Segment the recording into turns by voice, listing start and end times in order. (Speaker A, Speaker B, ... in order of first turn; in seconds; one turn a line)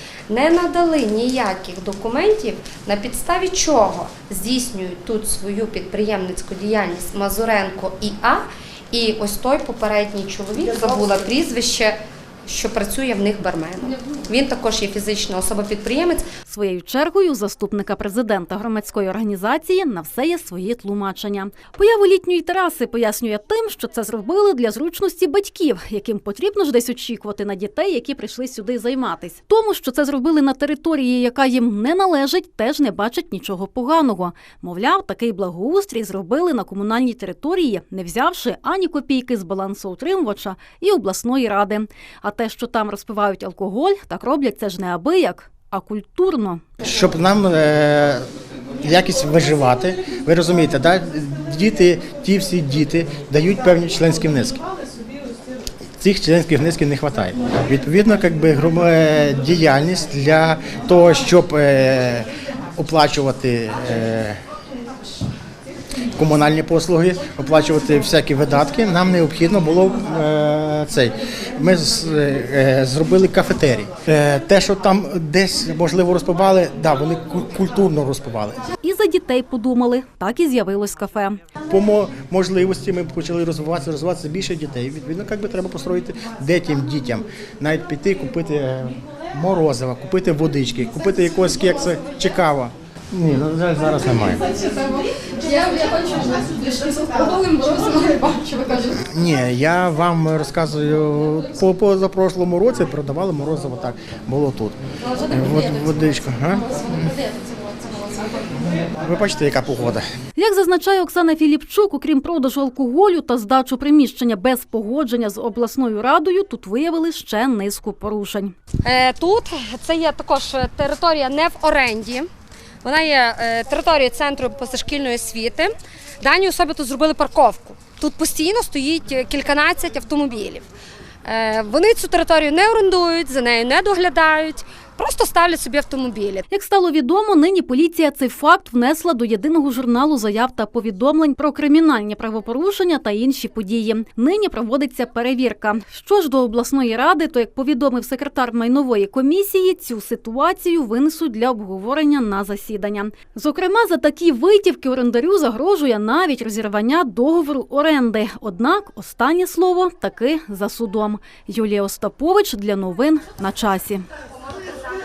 Speaker A: 0.3-16.3
Speaker B: 16.5-46.6
Speaker C: 46.8-48.2
Speaker C: 48.8-54.6
Speaker C: 56.0-64.4
Speaker C: 66.2-78.6
Speaker B: 78.8-81.4
Speaker C: 81.7-94.4
Speaker C: 99.0-107.1
Speaker C: 108.8-110.0
Speaker B: 110.4-118.5
Speaker A: 118.8-122.3
Speaker A: 122.8-130.6
Speaker A: 131.2-136.5
Speaker B: 136.5-164.0